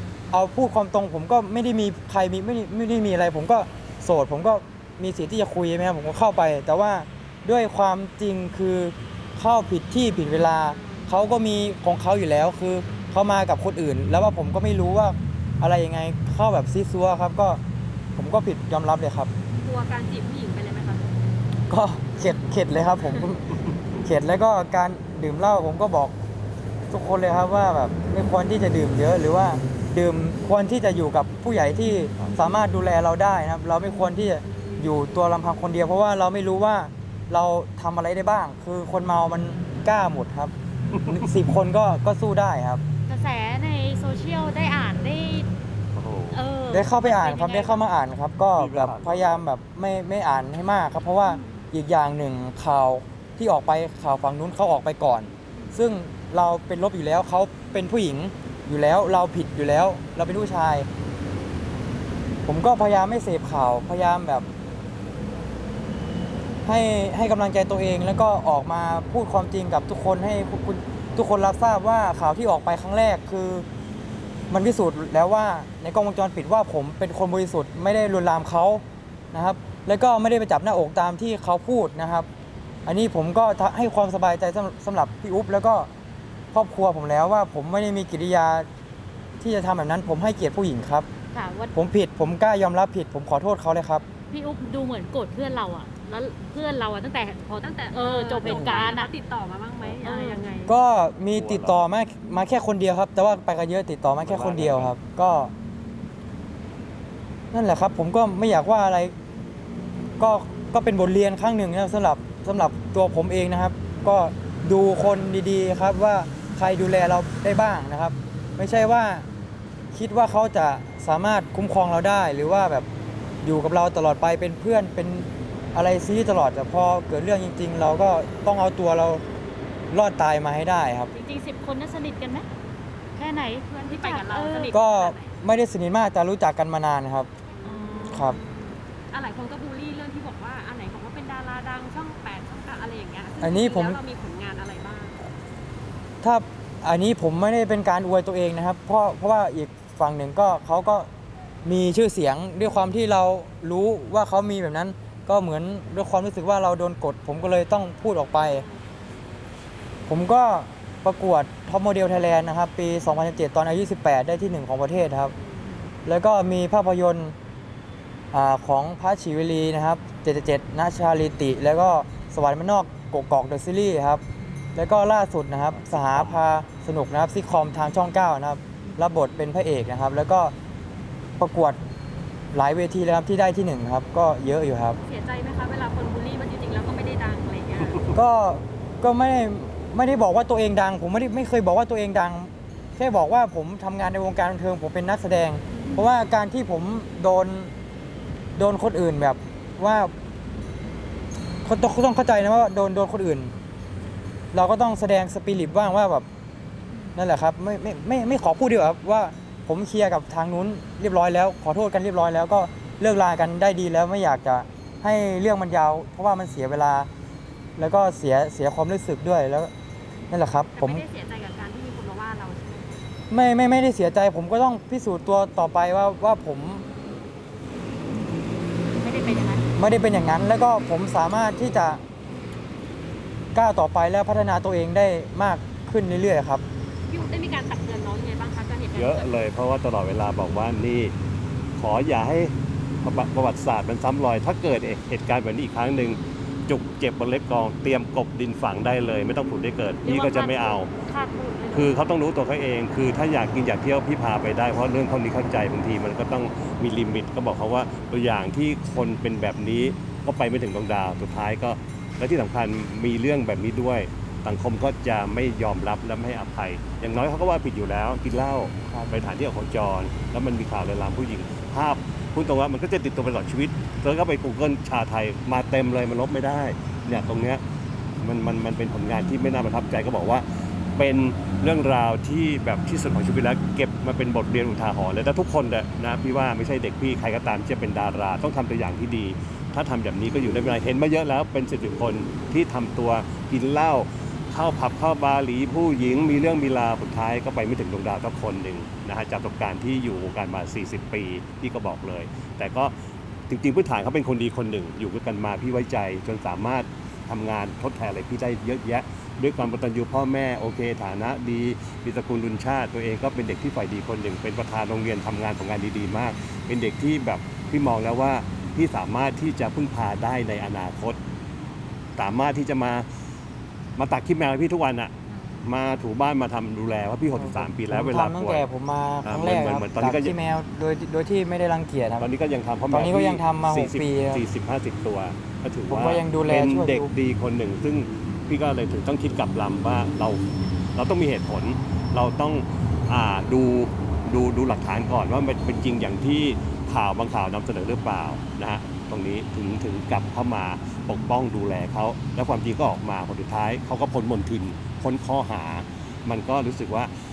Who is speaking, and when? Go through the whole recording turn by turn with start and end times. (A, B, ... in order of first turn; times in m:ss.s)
0:00.3-0:17.6 A
0:10.7-0:11.0 B
0:18.2-0:19.3 A
0:19.6-0:21.1 B
0:21.7-0:26.1 A
0:23.7-0:24.0 C
0:26.9-0:40.5 A
0:40.9-0:41.3 C
0:41.1-0:42.8 A
0:43.1-0:45.5 D
0:45.9-0:46.4 C
0:46.3-0:47.8 D
0:46.7-1:00.9 A
0:48.6-0:49.4 C
1:02.5-1:04.5 A
1:06.7-1:13.7 A
1:14.5-1:22.3 A
1:22.9-1:25.9 A
1:26.5-1:28.7 A
1:29.4-1:31.1 A
1:31.3-1:31.8 D
1:31.7-1:34.0 A
1:34.3-1:39.1 D
1:37.6-1:40.7 B
1:38.5-1:38.8 C
1:40.0-1:40.5 D
1:40.7-1:45.5 A
1:41.3-1:41.8 C
1:44.2-1:45.0 C
1:47.5-1:49.1 A
1:50.2-1:59.3 A
1:59.9-2:02.9 A
2:03.4-2:09.2 A
2:09.9-2:11.1 A
2:11.1-2:12.5 D
2:13.2-2:14.8 D
2:13.7-2:15.3 B
2:14.7-2:17.3 A
2:17.5-2:25.2 B
2:17.6-2:18.4 D
2:18.1-2:18.4 A
2:23.4-2:24.0 A
2:26.2-2:31.1 A
2:31.6-2:38.6 A
2:38.4-2:38.8 B
2:40.1-2:45.3 A
2:45.4-2:45.7 B
2:46.1-2:47.4 A
2:48.3-2:54.2 A
2:54.8-3:00.5 A
2:55.7-2:56.4 C
3:01.4-3:01.8 A
3:02.5-3:05.0 A
3:05.1-3:08.1 B
3:08.1-3:17.7 A
3:15.7-3:16.0 B
3:18.6-3:20.1 A
3:21.6-3:23.5 A
3:24.5-3:26.2 A
3:27.2-3:37.1 A
3:37.8-3:39.7 A
3:40.3-3:41.0 A
3:40.8-3:43.0 B
3:43.3-3:46.9 A
3:49.0-3:49.6 D
3:49.8-3:52.0 A
3:53.6-3:56.6 A
3:57.1-3:59.3 B
3:58.9-4:01.1 C
4:01.8-4:10.9 C
4:10.0-4:12.0 D
4:11.7-4:37.6 C
4:38.2-5:02.9 C
5:03.5-5:21.2 C
5:22.2-5:23.1 C
5:24.0-5:28.7 C
5:27.4-5:32.3 A
5:29.2-5:30.4 C
5:32.2-5:57.1 C
5:32.9-5:34.4 A
5:35.9-5:37.1 A